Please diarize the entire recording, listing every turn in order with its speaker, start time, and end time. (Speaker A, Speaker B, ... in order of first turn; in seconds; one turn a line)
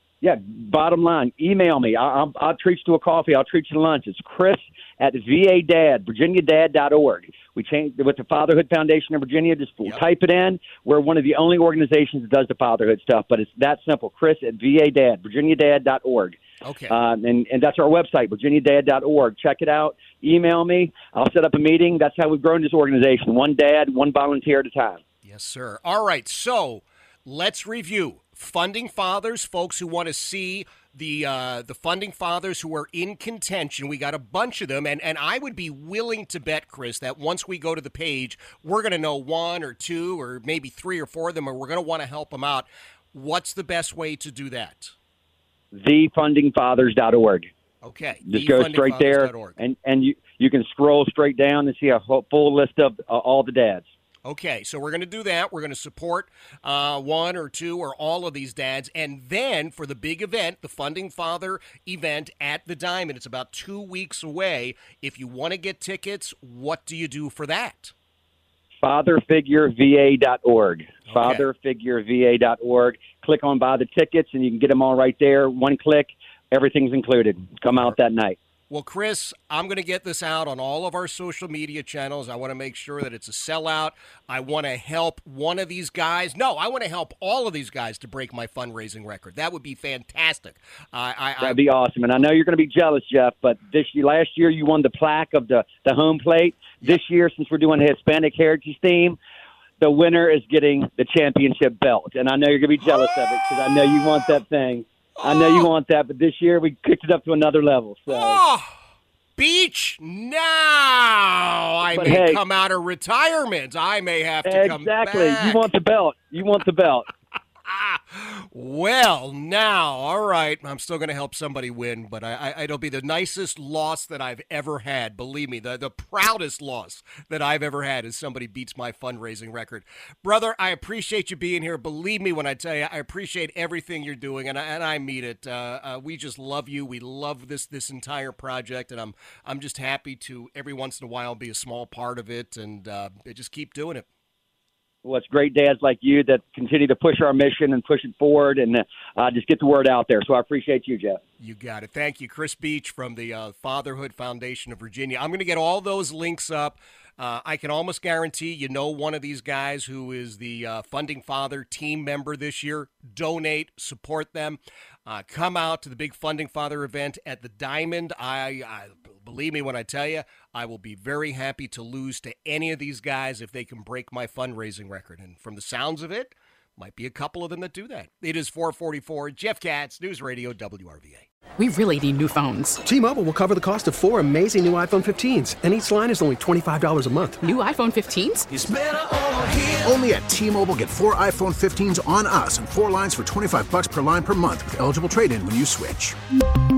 Speaker A: 0.2-25.0
Speaker B: 16.6-16.9
Speaker B: 25.2-44.9
Speaker A: 45.7-47.5
Speaker B: 47.8-49.6
Speaker A: 48.2-53.8
Speaker B: 54.2-67.9
Speaker A: 68.8-78.4
Speaker B: 71.1-71.5
Speaker B: 78.7-91.6
Speaker A: 91.4-99.2
Speaker A: 99.8-108.4
Speaker B: 102.8-104.4
Speaker B: 105.2-105.7
Speaker B: 108.1-108.7
Speaker B: 109.4-115.7
Speaker A: 111.9-112.4
Speaker A: 114.4-117.1
Speaker B: 117.7-144.0
Speaker A: 145.0-151.2
Speaker B: 151.4-181.3
Speaker C: 181.6-182.9
Speaker D: 182.8-187.4
Speaker C: 187.4-188.5
Speaker E: 188.5-196.2